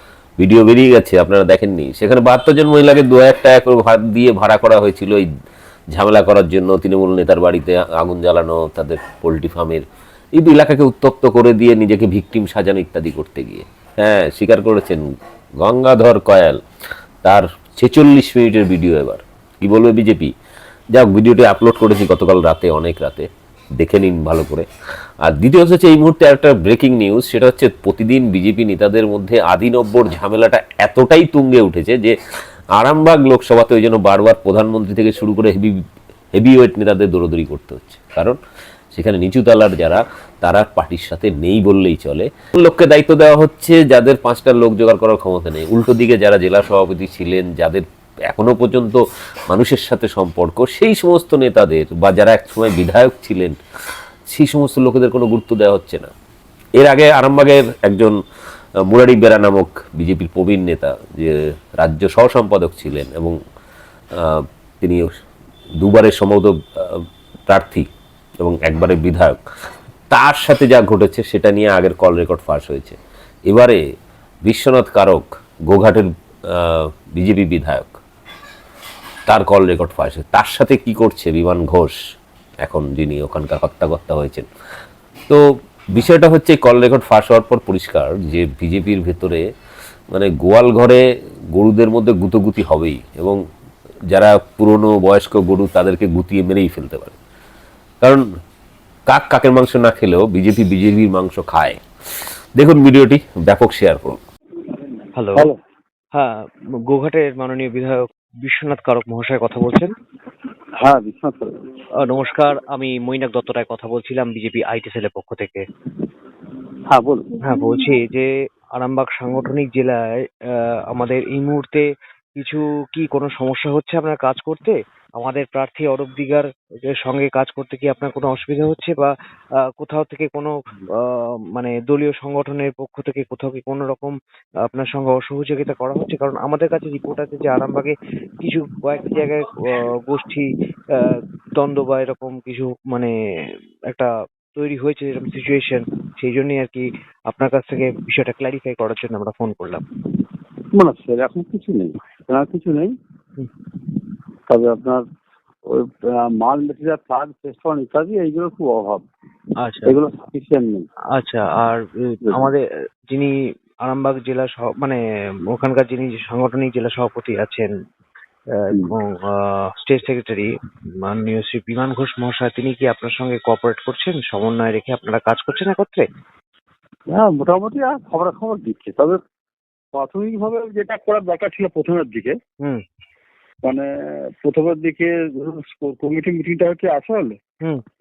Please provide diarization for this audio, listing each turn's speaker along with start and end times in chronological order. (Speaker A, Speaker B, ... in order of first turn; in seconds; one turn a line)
Speaker A: 0.4-5.3
Speaker A: 5.9-9.8
Speaker A: 10.4-15.1
Speaker A: 15.6-16.6
Speaker A: 17.2-20.3
Speaker A: 20.9-24.7
Speaker A: 25.2-32.2
Speaker A: 32.7-35.8
Speaker A: 36.3-38.4
Speaker A: 38.9-53.6
Speaker A: 54.3-56.1
Speaker A: 56.8-58.1
Speaker A: 58.9-63.4
Speaker A: 64.2-65.1
Speaker A: 65.8-67.9
Speaker A: 68.4-69.4
Speaker A: 70.1-73.8
Speaker A: 74.4-78.0
Speaker A: 79.3-82.0
Speaker A: 82.6-84.5
Speaker A: 85.9-89.4
Speaker A: 90.1-93.4
Speaker A: 94.1-97.2
Speaker A: 99.1-101.8
Speaker A: 102.6-104.2
Speaker B: 104.8-105.6
Speaker C: 105.2-105.5
Speaker C: 106.2-109.9
Speaker B: 110.8-111.5
Speaker C: 112.0-115.7
Speaker B: 116.9-118.0
Speaker C: 117.5-121.9
Speaker C: 122.4-126.5
Speaker C: 127.0-129.1
Speaker C: 129.8-134.1
Speaker C: 134.7-143.1
Speaker C: 143.9-149.8
Speaker B: 150.7-152.9
Speaker B: 154.5-155.0
Speaker B: 155.7-159.0
Speaker C: 159.6-159.9
Speaker B: 159.8-160.8
Speaker C: 161.1-163.3
Speaker B: 162.2-162.5
Speaker C: 163.8-165.0
Speaker C: 165.5-167.7
Speaker C: 168.5-170.5
Speaker C: 171.1-176.0
Speaker B: 177.1-179.2
Speaker B: 179.9-182.3
Speaker B: 184.4-187.3